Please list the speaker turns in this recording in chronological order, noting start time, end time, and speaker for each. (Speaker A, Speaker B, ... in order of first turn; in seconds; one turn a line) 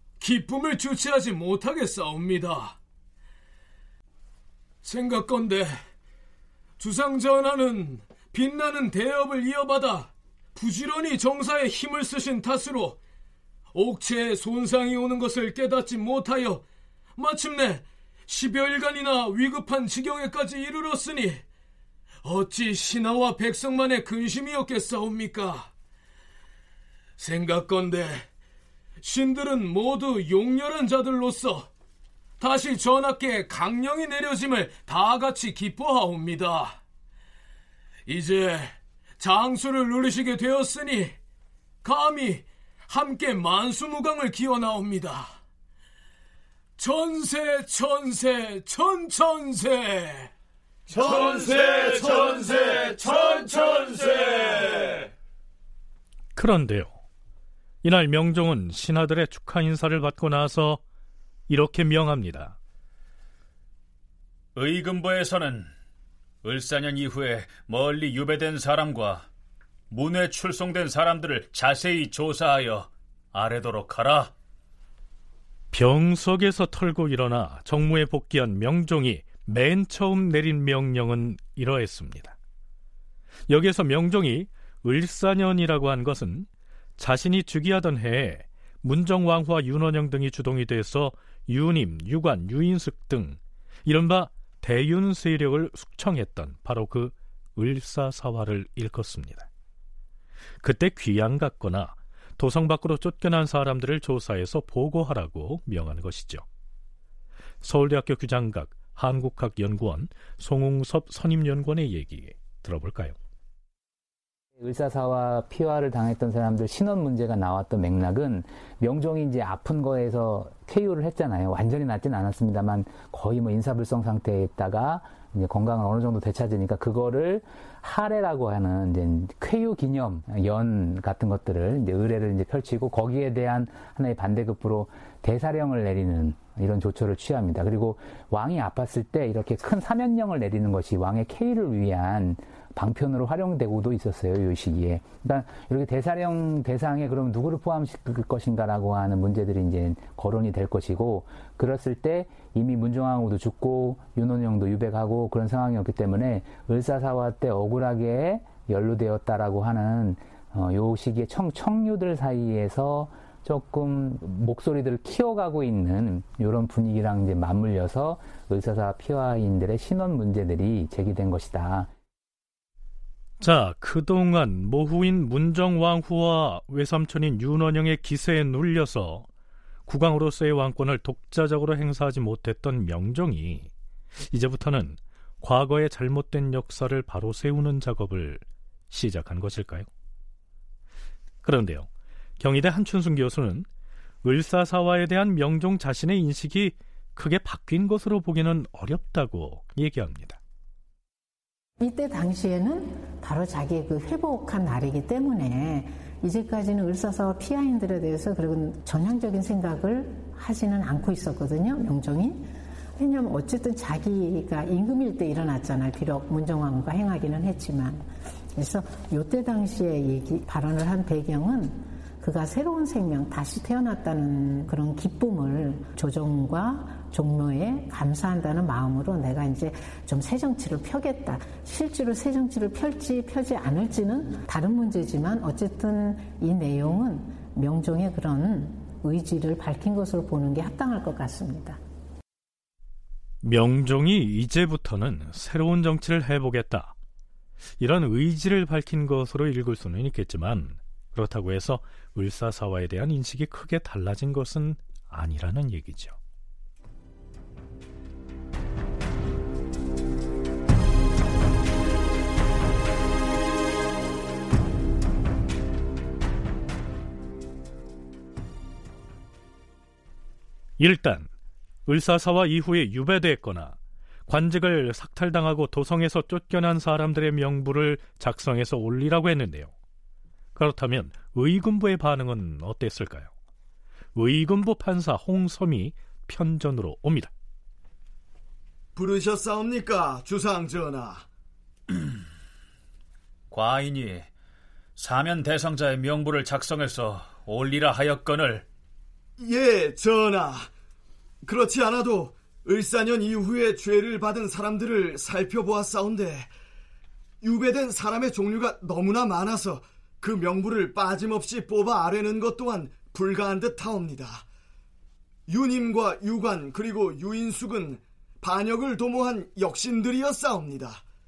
Speaker A: 0.2-2.8
Speaker A: 4.8-5.8
Speaker A: 6.8-13.0
Speaker A: 13.7-16.6
Speaker A: 17.1-21.4
Speaker A: 22.2-25.7
Speaker A: 27.2-28.3
Speaker A: 29.0-31.7
Speaker A: 32.4-36.8
Speaker A: 38.0-41.2
Speaker A: 41.8-45.4
Speaker A: 46.8-50.3
Speaker B: 50.9-55.0
Speaker C: 56.3-57.0
Speaker C: 57.8-60.8
Speaker C: 61.5-62.5
Speaker D: 64.5-65.7
Speaker D: 66.4-69.3
Speaker D: 69.9-74.3
Speaker C: 75.7-82.3
Speaker C: 83.5-86.5
Speaker C: 87.0-99.5
Speaker C: 100.6-106.4
Speaker C: 107.6-113.2
Speaker E: 114.6-171.9
Speaker C: 173.4-179.3
Speaker C: 179.9-183.7
Speaker C: 184.3-189.9
Speaker C: 191.4-191.9
Speaker C: 192.4-193.7
Speaker C: 194.2-200.4
Speaker F: 201.8-241.8
Speaker C: 243.4-246.9
Speaker C: 247.8-256.1
Speaker C: 270.8-271.3
Speaker C: 271.9-279.7
Speaker C: 280.5-283.3
Speaker C: 284.1-287.3
Speaker B: 288.9-291.2
Speaker D: 293.5-294.3
Speaker D: 294.9-298.6
Speaker B: 299.4-300.7
Speaker B: 301.4-306.5
Speaker B: 307.4-314.4
Speaker B: 315.5-321.0